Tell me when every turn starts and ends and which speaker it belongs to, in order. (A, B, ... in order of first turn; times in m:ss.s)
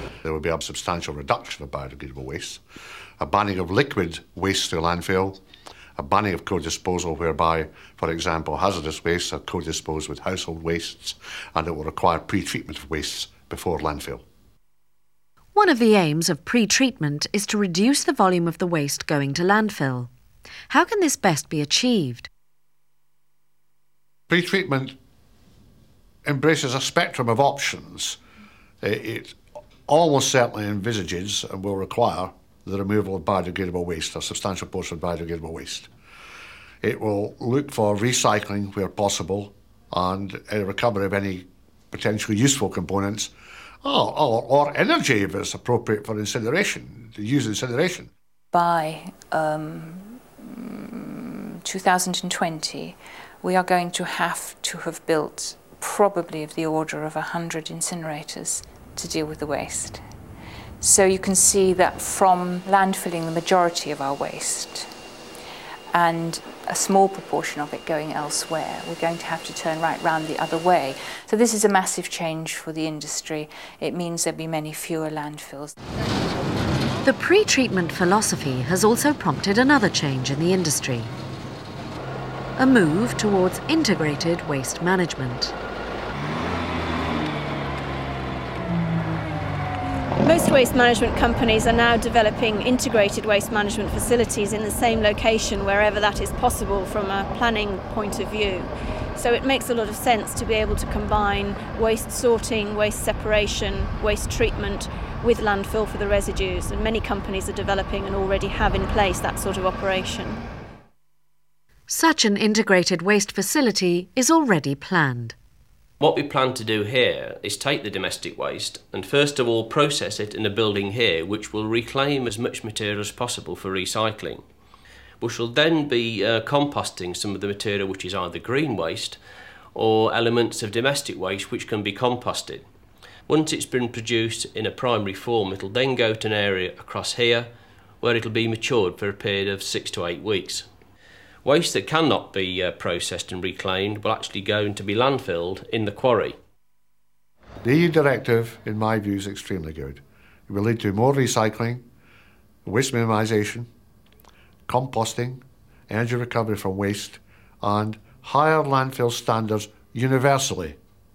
0:00.2-0:02.6 A
0:03.2-0:05.4 A
0:06.0-0:14.2 A
0:15.5-0:20.1 B
0:20.7-0:22.3 B
0:24.3-0:25.0 A
0:26.2-0:28.2 A
0:28.8-0:29.4 A
0:29.9-0:35.9 A
0:36.8-0:43.3 A
0:43.8-0:48.1 A
0:48.5-1:00.0 C
1:00.8-1:04.9 C
1:05.9-1:15.7 C
1:17.0-1:21.1 B
1:22.6-1:25.5 B
1:30.2-1:50.4 D
1:51.9-1:55.3 B
1:56.0-2:04.4 E
2:05.2-2:09.2 E
2:09.7-2:12.6 E
2:13.3-2:17.5 E
2:18.0-2:20.6 E
2:21.4-2:26.3 E
2:27.6-2:31.8 A
2:32.6-2:33.7 A
2:34.7-2:40.8 A